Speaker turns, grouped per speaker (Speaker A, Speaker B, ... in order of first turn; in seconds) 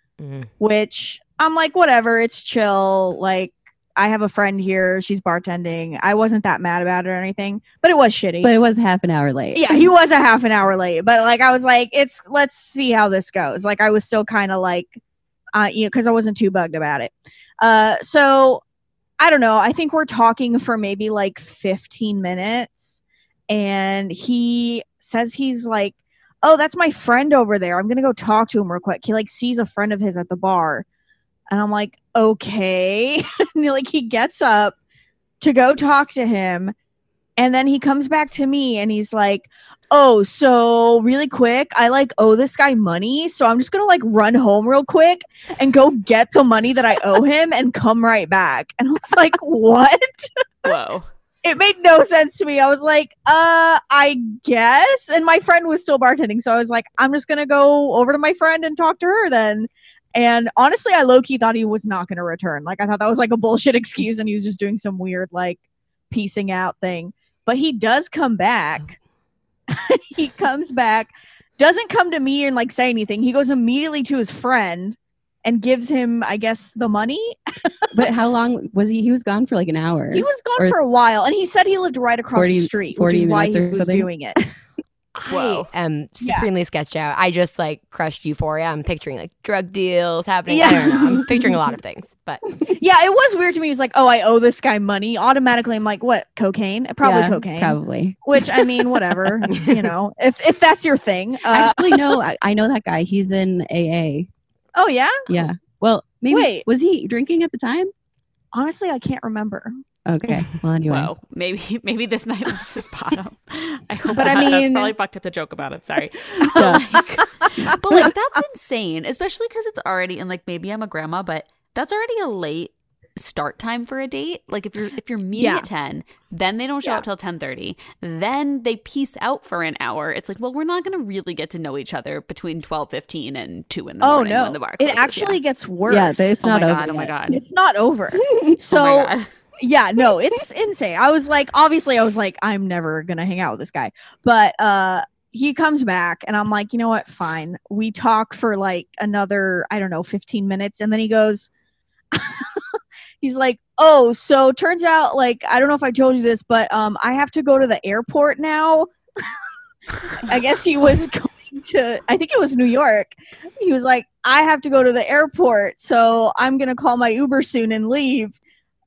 Speaker A: 0.2-0.5, 85.2-92.5
Speaker B: 0.6-8.5, 9.6-15.0, 15.5-18.6, 19.2-30.9, 31.5-34.8, 35.4-36.7, 37.4-50.4, 51.4-69.0, 69.7-77.9, 80.1-84.4, 86.2-86.5, 90.5-91.5, 92.8-102.2, 104.8-105.3, 106.3-106.7, 108.5-109.7, 114.1-115.0, 125.3-125.7, 134.0-136.4, 137.3-151.5, 152.1-152.6, 153.2-159.3, 160.2-168.4
Speaker C: 8.4-9.9, 77.9-80.8, 82.3-84.5, 97.0-99.4, 101.5-104.3, 105.3-107.9, 110.1-111.1, 116.4-116.9, 135.9-137.1, 138.2-138.6
Speaker D: 50.6-51.1, 85.2-85.7, 110.9-135.4, 136.4-137.4, 138.6-139.3